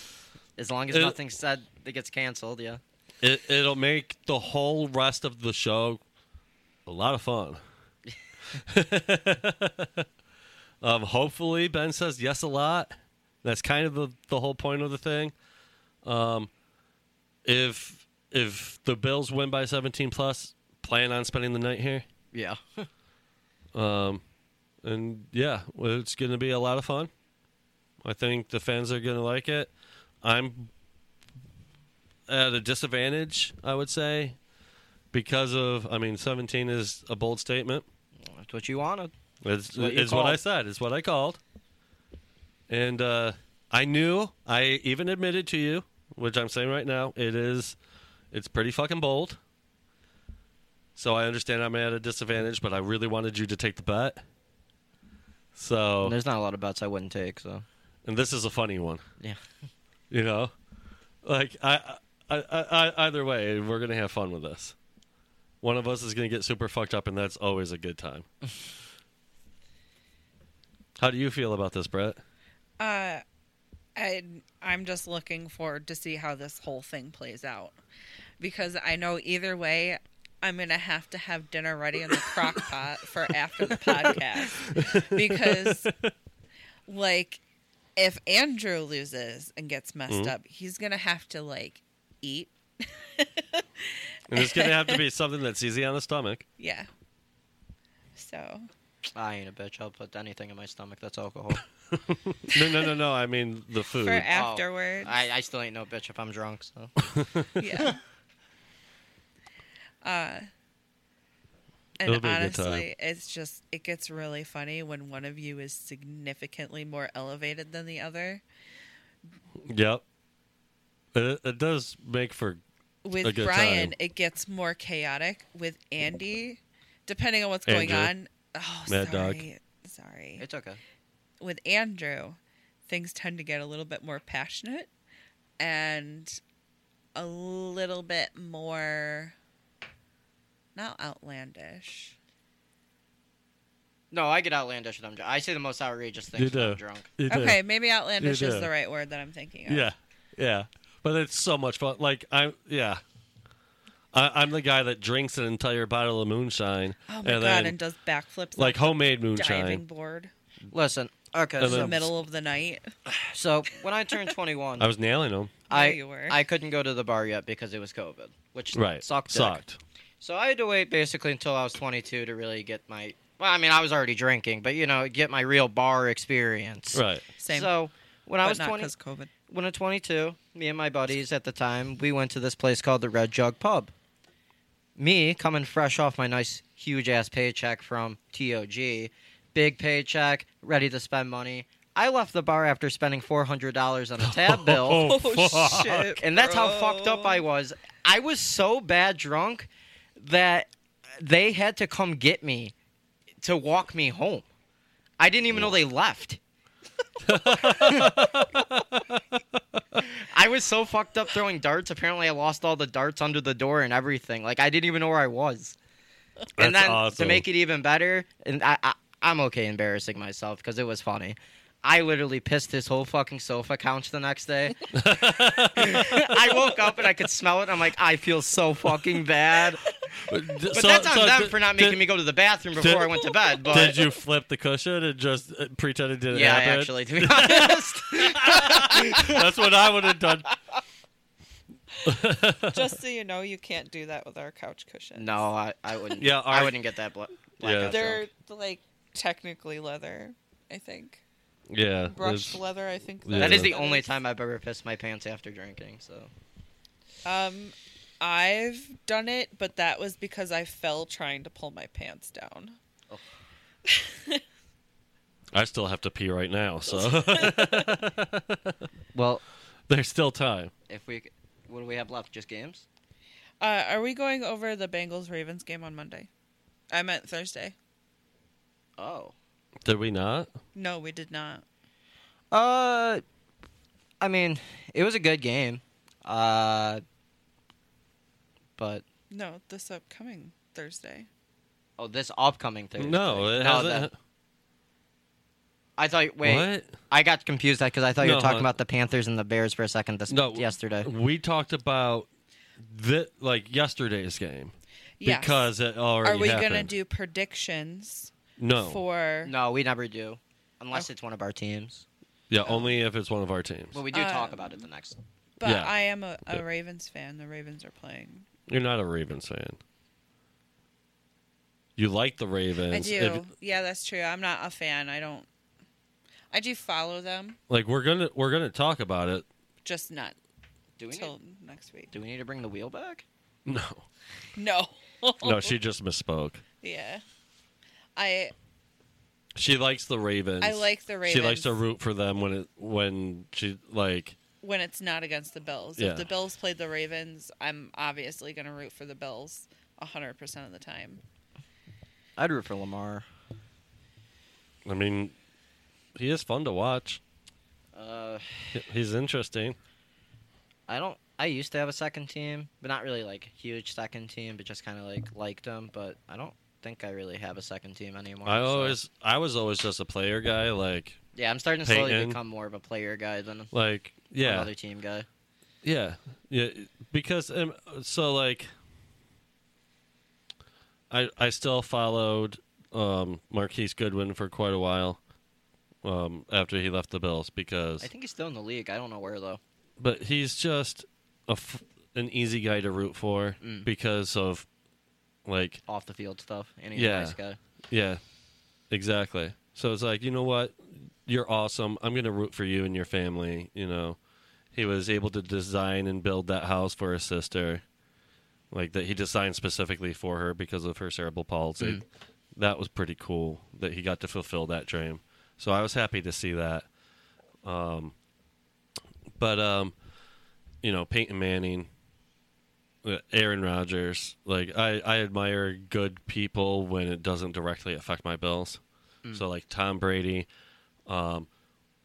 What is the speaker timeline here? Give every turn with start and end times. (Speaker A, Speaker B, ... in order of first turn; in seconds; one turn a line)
Speaker A: 0.6-2.8
Speaker B: 0.9-1.1
Speaker B: 3.2-6.0
Speaker B: 6.8-7.6
Speaker B: 8.6-10.1
Speaker B: 10.8-15.3
Speaker B: 16.0-16.5
Speaker B: 17.4-22.0
Speaker A: 22.3-22.9
Speaker B: 23.7-24.2
Speaker B: 24.8-27.1
Speaker B: 28.0-29.7
Speaker B: 30.2-30.7
Speaker B: 32.3-34.4
Speaker B: 35.1-37.9
Speaker A: 38.2-39.1
Speaker B: 39.4-41.4
Speaker A: 39.7-40.4
Speaker B: 42.7-47.8
Speaker B: 48.3-49.4
Speaker B: 51.0-54.2
Speaker B: 55.5-56.2
Speaker A: 56.0-57.6
Speaker B: 58.0-59.0
Speaker B: 60.1-60.5
Speaker B: 61.2-64.8
Speaker B: 65.6-68.2
Speaker B: 71.0-72.2
Speaker C: 72.8-73.2
Speaker C: 74.0-77.7
Speaker C: 78.4-85.9
Speaker B: 83.7-86.1
Speaker C: 86.9-87.4
Speaker C: 88.0-95.0
Speaker B: 90.1-90.3
Speaker B: 94.3-96.4
Speaker C: 96.6-96.9
Speaker C: 98.2-98.7
Speaker A: 99.1-101.6
Speaker B: 101.9-104.3
Speaker C: 104.0-105.2
Speaker A: 104.3-106.9
Speaker B: 107.0-107.5
Speaker C: 107.6-108.0
Speaker C: 110.0-110.5
Speaker C: 112.0-118.4
Speaker B: 112.0-112.9
Speaker B: 119.6-120.0
Speaker B: 121.1-122.6
Speaker C: 123.0-130.4
Speaker B: 123.2-123.9
Speaker B: 127.7-128.1
Speaker B: 128.9-129.4
Speaker A: 130.4-130.8
Speaker C: 131.4-134.9
Speaker C: 135.6-136.4
Speaker C: 137.1-139.3
Speaker C: 140.7-142.1
Speaker A: 144.1-147.1
Speaker B: 146.3-147.6
Speaker C: 147.3-149.9
Speaker B: 148.2-148.7
Speaker B: 149.7-153.0
Speaker B: 154.1-157.8
Speaker C: 157.1-160.3
Speaker B: 158.6-159.8
Speaker A: 160.7-162.0
Speaker B: 161.6-162.1
Speaker C: 161.6-162.9
Speaker A: 163.1-164.9
Speaker B: 164.8-165.6
Speaker C: 165.7-166.4
Speaker A: 165.7-169.6
Speaker B: 168.7-169.8
Speaker A: 170.2-178.9
Speaker B: 176.9-177.3
Speaker C: 177.4-177.7
Speaker C: 178.4-179.3
Speaker A: 179.5-183.9
Speaker A: 185.0-195.1
Speaker B: 194.2-196.1
Speaker C: 194.9-197.4
Speaker A: 196.2-202.7
Speaker A: 203.4-204.4
Speaker A: 205.2-206.4
Speaker B: 207.2-209.2
Speaker A: 210.0-215.8
Speaker B: 216.6-217.4
Speaker A: 216.6-224.9
Speaker B: 224.9-226.4
Speaker A: 225.6-229.8
Speaker B: 230.3-232.0
Speaker A: 230.7-234.0
Speaker B: 232.8-233.1
Speaker B: 233.7-240.5
Speaker C: 233.7-234.0
Speaker A: 236.3-239.4
Speaker B: 242.0-242.9
Speaker C: 242.7-245.4
Speaker A: 245.1-248.2
Speaker B: 246.2-246.8
Speaker B: 247.6-248.0
Speaker C: 247.9-251.2
Speaker B: 251.7-252.6
Speaker C: 252.1-254.1
Speaker B: 253.2-253.7
Speaker A: 253.4-256.3
Speaker C: 257.2-262.8
Speaker C: 263.9-264.4
Speaker B: 265.5-268.8
Speaker A: 266.9-267.5
Speaker A: 269.1-269.4
Speaker B: 269.9-270.7
Speaker A: 270.9-272.8
Speaker C: 273.6-276.3
Speaker C: 276.9-277.7
Speaker A: 279.0-279.3
Speaker B: 279.8-280.5
Speaker C: 280.7-281.6
Speaker A: 282.5-283.2
Speaker A: 284.2-287.0
Speaker A: 288.8-289.0
Speaker C: 289.3-291.3
Speaker A: 292.0-294.1
Speaker B: 293.0-294.1
Speaker A: 296.0-301.1
Speaker B: 296.4-296.9
Speaker B: 298.2-298.7
Speaker B: 300.3-302.3
Speaker B: 302.8-306.9
Speaker C: 305.2-305.7
Speaker C: 306.2-309.5
Speaker B: 308.6-309.0
Speaker A: 309.4-312.0
Speaker B: 312.5-314.0
Speaker C: 312.6-312.9
Speaker A: 313.9-315.2
Speaker C: 314.1-314.8
Speaker C: 315.6-318.4
Speaker B: 315.6-315.9
Speaker B: 318.7-319.8
Speaker B: 322.0-323.4
Speaker C: 322.9-325.4
Speaker C: 326.5-327.6
Speaker B: 327.7-329.4
Speaker C: 329.8-330.4
Speaker A: 331.0-331.3
Speaker C: 331.1-332.1
Speaker A: 332.1-333.2
Speaker B: 333.6-334.0
Speaker C: 334.5-335.8
Speaker B: 335.4-336.6
Speaker C: 336.8-337.2
Speaker C: 338.1-338.5
Speaker B: 339.6-344.4
Speaker C: 340.6-341.8
Speaker C: 344.6-351.2
Speaker B: 346.0-346.3
Speaker A: 352.4-353.2
Speaker B: 354.8-355.3
Speaker B: 356.1-357.2
Speaker A: 357.9-358.8
Speaker B: 358.7-359.8
Speaker A: 360.9-369.0
Speaker B: 368.4-371.2
Speaker A: 371.3-373.7
Speaker B: 371.8-372.4
Speaker B: 373.7-374.7
Speaker A: 374.4-375.3
Speaker B: 375.8-378.7
Speaker B: 381.1-385.2
Speaker B: 386.0-388.1
Speaker A: 388.0-389.6
Speaker B: 390.0-394.6
Speaker A: 393.6-393.9
Speaker B: 395.4-395.8
Speaker A: 395.9-397.6
Speaker B: 396.9-397.4
Speaker B: 397.9-398.2
Speaker B: 398.9-404.2
Speaker B: 404.7-407.8
Speaker B: 408.7-412.0
Speaker B: 412.6-416.9
Speaker B: 417.6-418.1
Speaker B: 419.4-419.9
Speaker B: 420.8-421.9
Speaker B: 423.0-428.8
Speaker B: 429.3-430.5
Speaker B: 431.1-431.5